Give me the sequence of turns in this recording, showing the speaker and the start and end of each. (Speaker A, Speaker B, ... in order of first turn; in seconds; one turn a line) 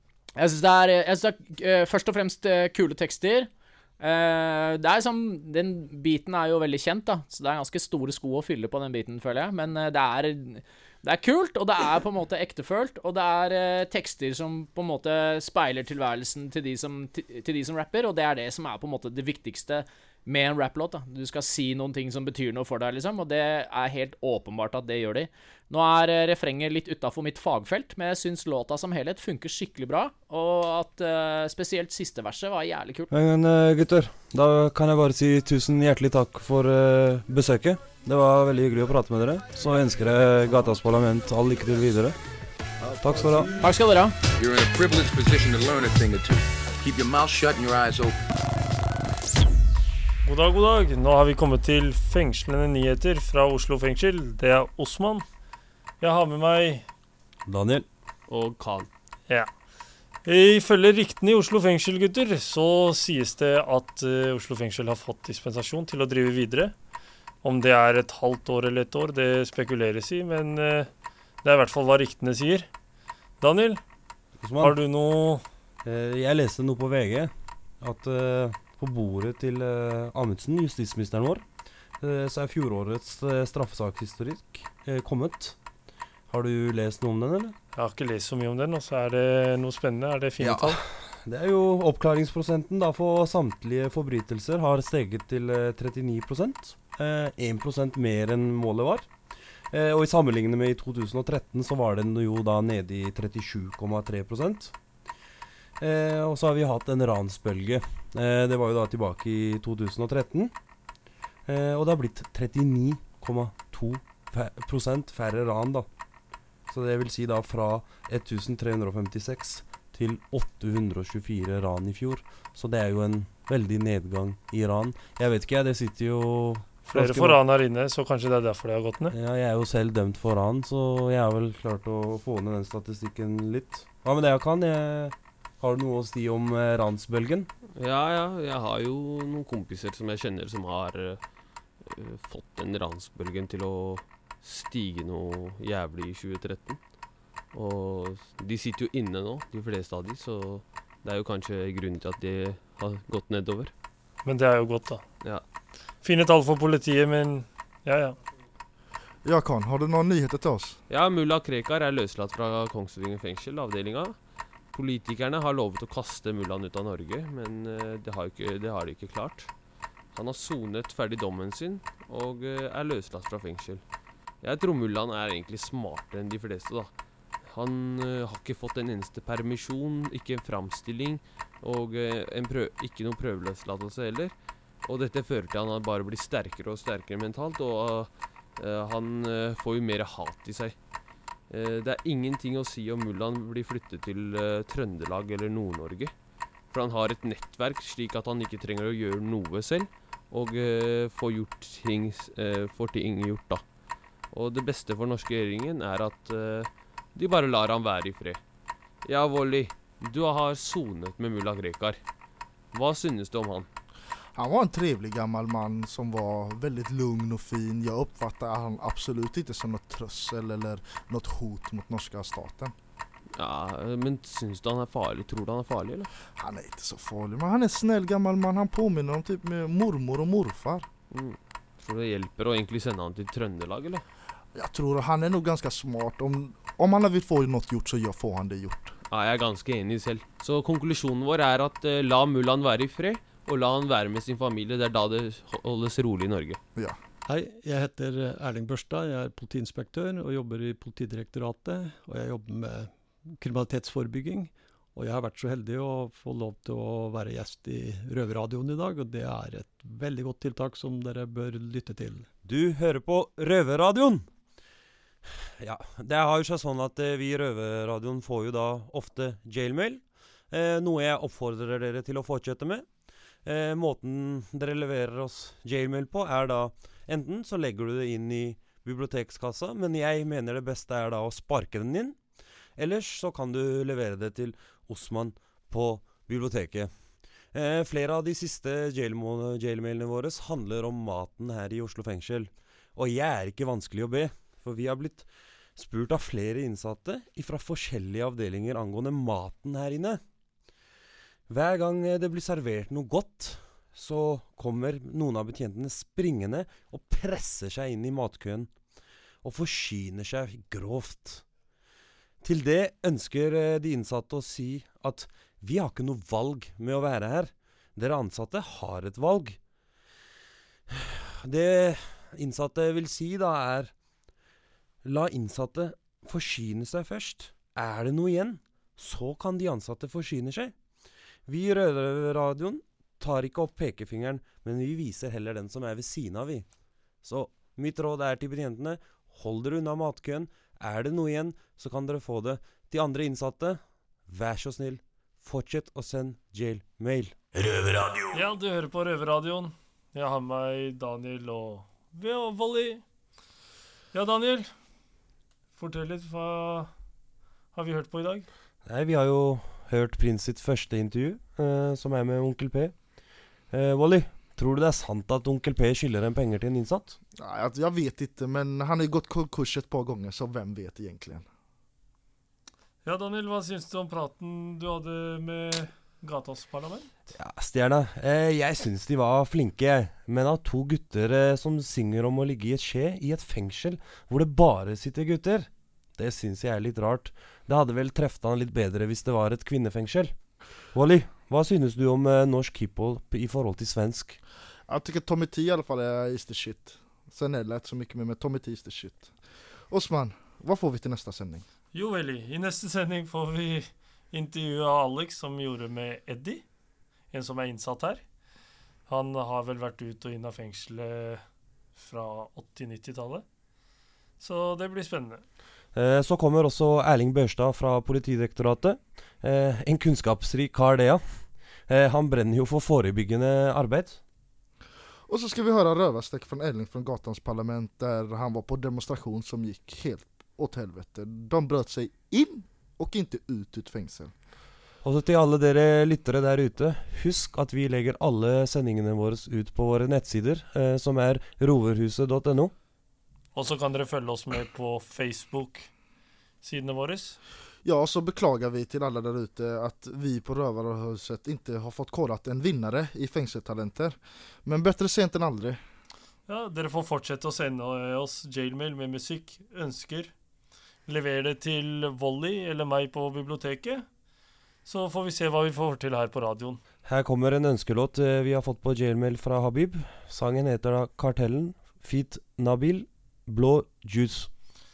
Speaker A: 0.4-33.1
Speaker B: 33.1-42.2
Speaker B: 43.0-43.5
Speaker A: 43.6-44.1
Speaker C: 44.4-48.2
Speaker D: 50.2-55.2
Speaker D: 56.0-56.9
Speaker B: 57.5-57.9
Speaker E: 58.3-58.9
Speaker D: 60.2-66.7
Speaker D: 67.4-70.9
Speaker D: 71.4-72.7
Speaker D: 73.4-73.8
Speaker B: 74.4-74.8
Speaker D: 74.6-75.4
Speaker B: 75.8-81.5
Speaker B: 82.0-85.6
Speaker B: 86.3-87.5
Speaker D: 87.7-90.8
Speaker B: 90.4-99.1
Speaker B: 99.7-104.7
Speaker B: 105.8-110.5
Speaker B: 111.5-115.9
Speaker B: 116.7-127.4
Speaker D: 126.8-129.1
Speaker B: 129.1-137.5
Speaker E: 137.7-141.2
Speaker E: 141.8-146.8
Speaker E: 147.5-153.7
Speaker D: 154.2-155.0
Speaker D: 156.0-158.2
Speaker F: 159.2-160.8
Speaker E: 160.9-169.5
Speaker E: 170.1-173.8
Speaker E: 174.4-190.8
Speaker E: 191.5-196.1
Speaker E: 196.7-203.7
Speaker E: 204.3-208.4
Speaker E: 209.0-212.0
Speaker E: 212.7-213.7
Speaker F: 214.3-222.7
Speaker E: 223.3-226.1
Speaker F: 226.3-230.8
Speaker E: 231.1-234.0
Speaker F: 234.5-238.9
Speaker E: 239.1-246.6
Speaker G: 247.2-262.3
Speaker B: 262.4-264.3
Speaker B: 265.6-272.9
Speaker B: 273.4-282.2
Speaker B: 282.8-300.2
Speaker B: 301.5-308.7
Speaker B: 309.4-311.4
Speaker B: 312.4-319.6
Speaker B: 320.9-323.9
Speaker B: 325.0-330.8
Speaker B: 331.4-336.7
Speaker B: 337.2-347.4
Speaker D: 348.3-353.0
Speaker D: 354.1-354.7
Speaker D: 355.8-356.9
Speaker D: 357.7-358.5
Speaker B: 358.8-367.2
Speaker F: 367.4-371.4
Speaker D: 373.0-377.1
Speaker B: 377.3-390.4
Speaker B: 390.9-394.4
Speaker F: 394.9-399.3
Speaker F: 399.9-401.6
Speaker D: 401.9-406.6
Speaker D: 407.3-408.2
Speaker D: 409.1-411.4
Speaker D: 411.9-413.4
Speaker D: 414.4-415.4
Speaker B: 415.9-424.2
Speaker F: 425.3-434.3
Speaker B: 435.0-442.7
Speaker D: 443.5-445.9
Speaker D: 446.6-447.4
Speaker F: 447.8-455.8
Speaker D: 456.5-460.3
Speaker D: 461.1-464.1
Speaker D: 464.8-466.8
Speaker B: 467.0-474.5